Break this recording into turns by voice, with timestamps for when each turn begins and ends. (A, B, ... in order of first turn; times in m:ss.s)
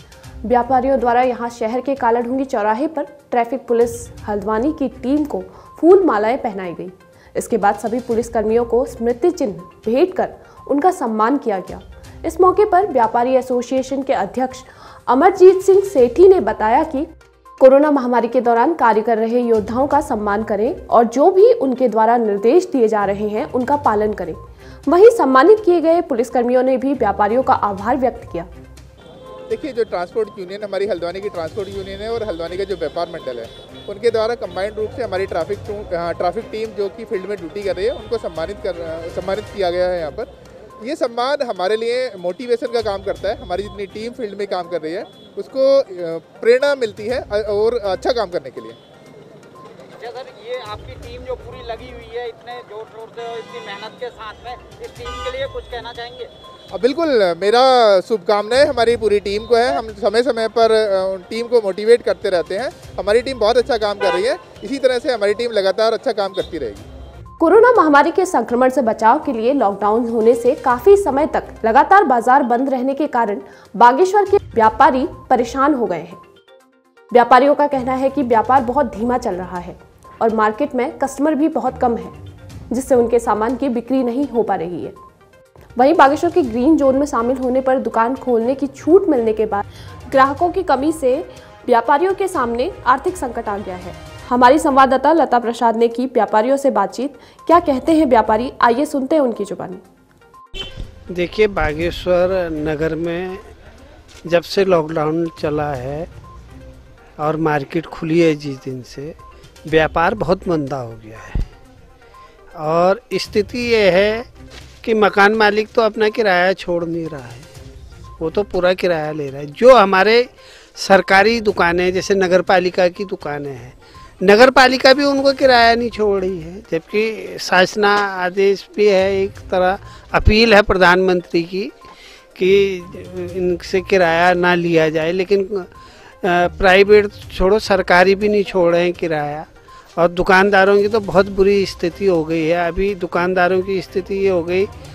0:00.4-0:17.1 A
0:17.6-0:28.5 A
0:29.5-0:40.3 B
0:40.8-0:48.8 B
0:50.0-0:56.3 C
0:56.7-1:06.8 B
1:07.4-1:16.2 A
1:17.1-1:22.2 A
1:22.7-1:25.0 A
1:25.8-1:39.8 A
1:41.1-1:43.4 D
1:44.3-1:46.1 D
1:47.2-1:49.1 D
1:49.7-1:51.5 D
1:52.6-1:54.2 D
1:54.8-1:57.5 D
1:58.2-2:00.2 D
2:00.8-2:11.7 D
2:12.4-2:15.7 D
2:16.2-2:24.7 D